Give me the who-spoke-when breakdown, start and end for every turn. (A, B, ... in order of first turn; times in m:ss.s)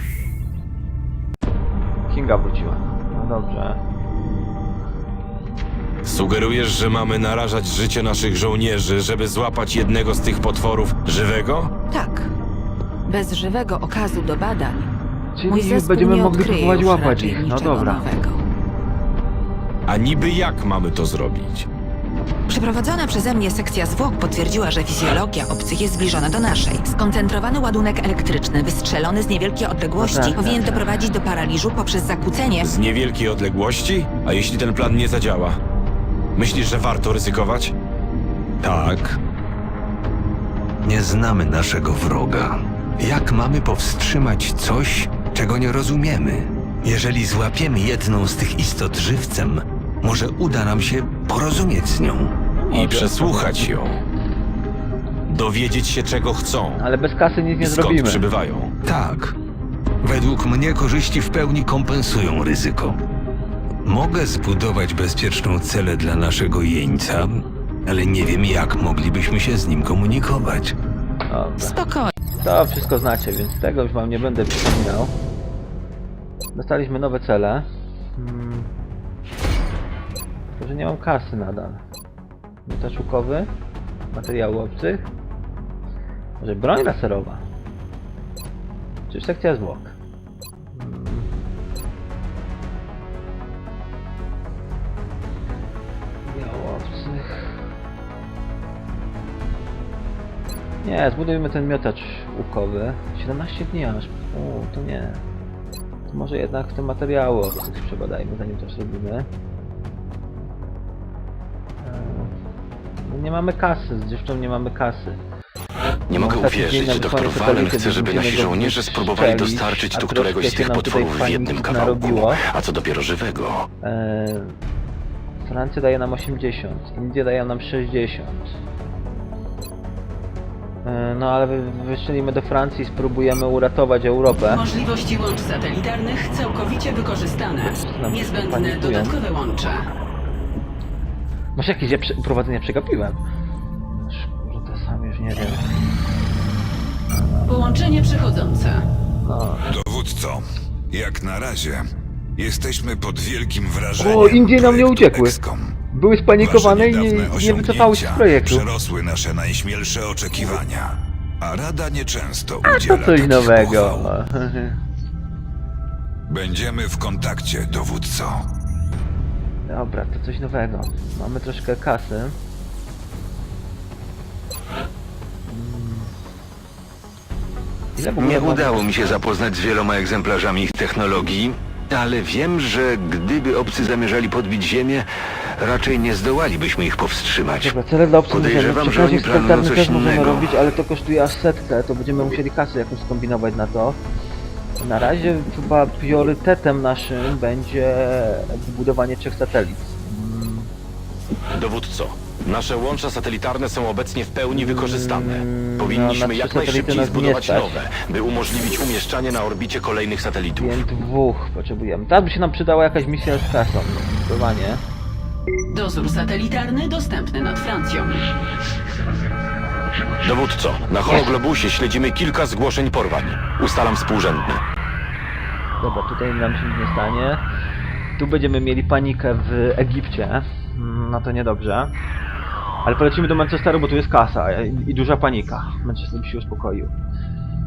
0:02.1-0:03.8 A
0:06.0-0:11.7 B
0:11.9-0:12.3 C
0:13.0-0:14.9 C
0:15.4-0:18.1 A
0:15.5-0:18.4 C
0:19.9-0:21.7 B
0:22.5-0:32.7 C
0:30.0-0:31.1 A
0:32.6-0:35.6 B
0:36.4-0:37.7 B
0:38.6-0:39.0 B
0:38.6-0:39.1 D
0:40.8-0:52.4 D
0:52.6-0:53.7 A
0:52.7-0:54.0 B
0:55.3-0:56.8 B
0:56.8-0:58.2 A
0:57.6-0:58.7 B
0:58.8-0:59.3 D
1:00.0-1:03.0 D
1:03.8-1:10.7 D
1:11.3-1:15.1 A
1:11.8-1:12.1 C
1:16.5-1:17.6 A
1:18.2-1:18.7 A
1:20.6-1:21.8 A
1:22.6-1:23.5 A
1:24.1-1:25.1 A
1:26.4-1:27.4 A
1:29.1-1:29.9 A
1:30.7-1:31.3 A
1:36.2-1:37.6 A
1:40.8-1:45.2 A
1:46.1-1:49.3 A
1:51.8-1:52.3 A
1:53.0-1:55.2 A
1:56.1-1:58.5 B
1:56.2-2:02.4 A
1:57.2-2:00.3 D
1:59.5-2:03.6 B
2:03.8-2:04.6 A
2:05.4-2:08.6 A
2:10.8-2:14.6 A
2:14.5-2:19.9 E
2:17.7-2:19.2 A
2:21.6-2:23.2 A
2:24.0-2:25.7 A
2:27.4-2:28.8 E
2:29.2-2:29.7 A
2:29.7-2:35.8 F
2:34.0-2:35.4 A
2:35.9-2:38.7 A
2:36.4-2:44.1 F
2:42.6-2:44.8 A
2:46.3-2:48.5 F
2:49.6-2:52.4 A
2:55.5-2:56.1 A
2:58.0-2:59.0 A
2:58.2-3:07.8 D
3:07.5-3:14.0 A
3:08.3-3:10.5 D
3:14.8-3:20.7 A
3:21.5-3:30.8 B
3:24.5-3:27.8 A
3:30.6-3:34.8 A
3:35.7-3:38.3 E
3:40.2-3:44.6 B
3:45.8-3:47.4 A
3:48.2-3:51.9 A
3:52.8-3:56.9 A